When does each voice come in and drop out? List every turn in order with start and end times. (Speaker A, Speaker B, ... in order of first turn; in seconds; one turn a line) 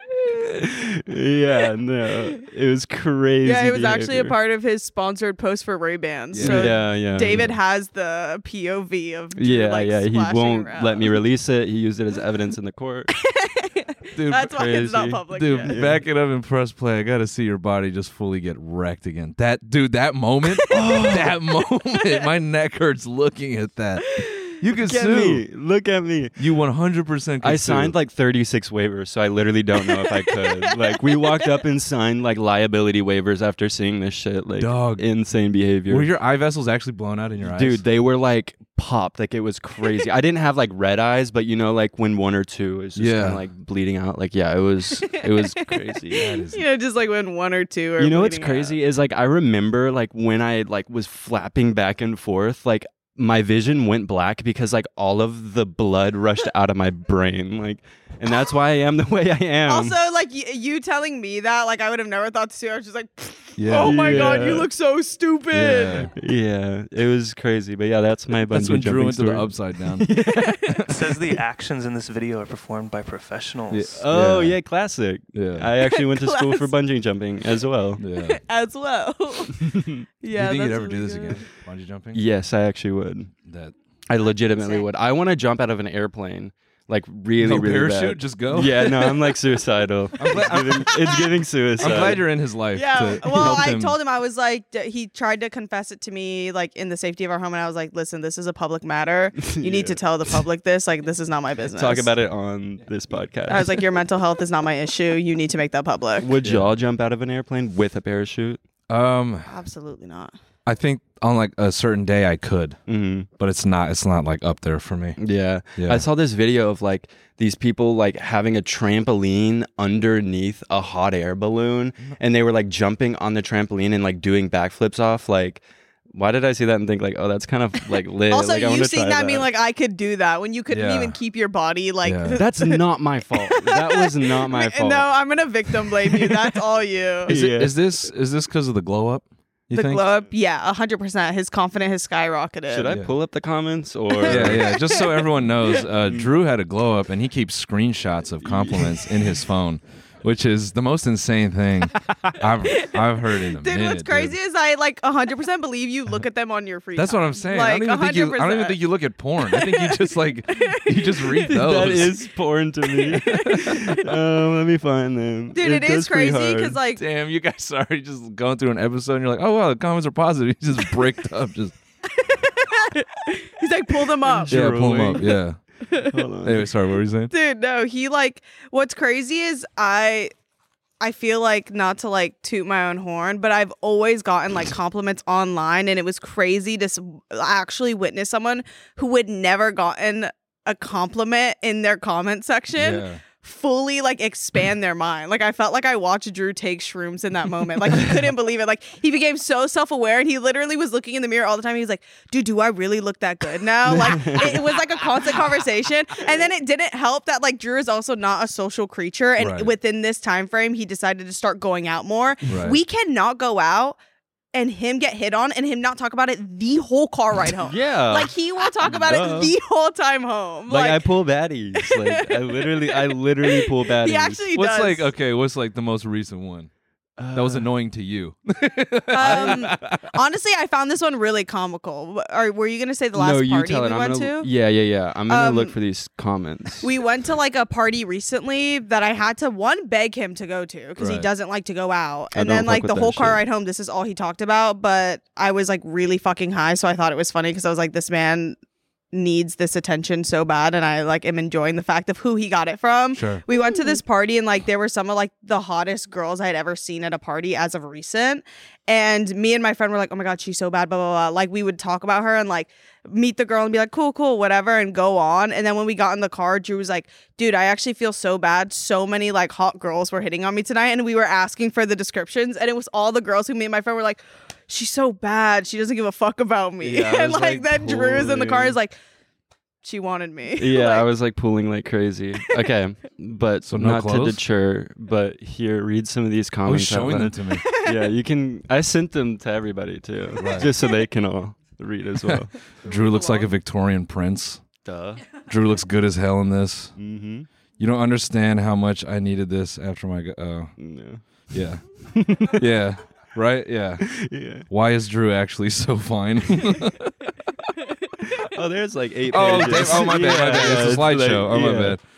Speaker A: 0.2-4.3
Speaker B: 3.4-11.2
Speaker C: 6.3-7.5
Speaker A: 6.4-7.5
Speaker A: 9.3-13.1
Speaker B: 13.2-15.8
Speaker C: 14.1-14.5
Speaker A: 14.5-16.0
Speaker C: 15.3-25.4
Speaker A: 20.7-21.3
Speaker B: 24.1-24.5
Speaker A: 24.8-26.4
Speaker C: 26.4-27.9
Speaker A: 27.4-36.1
Speaker B: 30.0-31.5
Speaker C: 34.6-35.0
Speaker C: 35.9-37.8
Speaker A: 37.4-46.3
Speaker C: 43.0-43.4
Speaker B: 45.2-48.8
Speaker C: 46.1-46.6
Speaker A: 48.0-60.0
Speaker B: 59.7-66.1
Speaker C: 63.6-64.4
Speaker A: 63.7-64.7
Speaker C: 65.5-66.1
Speaker A: 66.2-70.6
Speaker C: 68.5-70.1
Speaker B: 70.3-70.8
Speaker D: 70.9-74.0
Speaker C: 73.7-74.6
Speaker A: 74.0-78.0
Speaker C: 75.3-75.7
Speaker B: 75.8-76.7
Speaker C: 78.0-78.4
Speaker B: 78.1-81.4
Speaker A: 79.6-80.0
Speaker C: 80.3-82.2
Speaker A: 82.1-83.3
Speaker C: 83.5-83.7
Speaker A: 84.1-92.2
Speaker B: 84.6-84.9
Speaker C: 87.4-89.3
Speaker C: 90.2-91.1
Speaker C: 91.8-93.9
Speaker B: 91.8-92.2
Speaker B: 92.7-102.1
Speaker A: 93.2-93.6
Speaker A: 99.4-100.3
Speaker A: 101.6-103.8
Speaker B: 103.5-106.3
Speaker A: 106.2-108.6
Speaker C: 108.9-109.5
Speaker B: 109.5-110.3
Speaker C: 110.7-112.8
Speaker A: 112.9-113.3
Speaker C: 113.4-115.2
Speaker A: 115.2-129.5
Speaker C: 115.8-116.0
Speaker B: 128.3-132.8
Speaker C: 130.7-131.2
Speaker C: 132.0-132.4
Speaker A: 132.3-135.1
Speaker B: 133.4-137.3
Speaker A: 135.7-136.5
Speaker A: 137.2-137.7
Speaker C: 137.3-140.0
Speaker B: 139.7-142.9
Speaker A: 142.7-144.8
Speaker B: 144.1-145.2
Speaker C: 144.3-154.3
Speaker A: 148.4-149.0
Speaker B: 152.7-158.8
Speaker C: 157.0-162.2
Speaker B: 159.4-161.5
Speaker A: 161.5-166.8
Speaker B: 163.0-163.5
Speaker C: 163.2-163.8
Speaker B: 165.5-167.0
Speaker C: 166.9-171.7
Speaker B: 172.1-174.5
Speaker A: 174.2-175.3
Speaker C: 174.5-175.6
Speaker B: 175.9-176.2
Speaker A: 176.0-176.7
Speaker C: 176.4-177.3
Speaker B: 177.3-180.3
Speaker B: 181.0-214.0
Speaker C: 192.8-193.2
Speaker A: 203.8-204.8
Speaker C: 209.4-209.7
Speaker C: 212.5-212.8
Speaker B: 214.5-221.0
Speaker A: 217.6-219.5
Speaker A: 220.7-224.4
Speaker B: 221.8-225.1
Speaker C: 224.5-226.7
Speaker A: 227.2-227.7
Speaker C: 227.3-230.1
Speaker B: 229.1-234.5
Speaker A: 229.2-229.7
Speaker A: 233.1-236.9
Speaker B: 235.3-235.7
Speaker B: 236.8-248.6
Speaker C: 241.0-241.3
Speaker A: 242.3-243.4
Speaker B: 249.1-278.9
Speaker C: 253.1-253.4
Speaker A: 276.8-278.8
Speaker B: 279.8-281.1
Speaker A: 280.6-292.5
Speaker C: 283.6-284.4
Speaker C: 286.6-287.6
Speaker B: 287.6-288.0
Speaker C: 290.4-290.7
Speaker C: 292.3-294.6
Speaker B: 292.8-293.5
Speaker A: 294.8-295.2
Speaker C: 295.5-296.9
Speaker A: 296.9-297.5
Speaker C: 297.8-300.7
Speaker A: 300.8-301.2
Speaker C: 301.5-301.8
Speaker A: 302.1-302.6
Speaker C: 302.5-304.1
Speaker A: 304.0-304.7
Speaker C: 304.7-307.1
Speaker A: 308.4-312.0
Speaker C: 309.3-312.0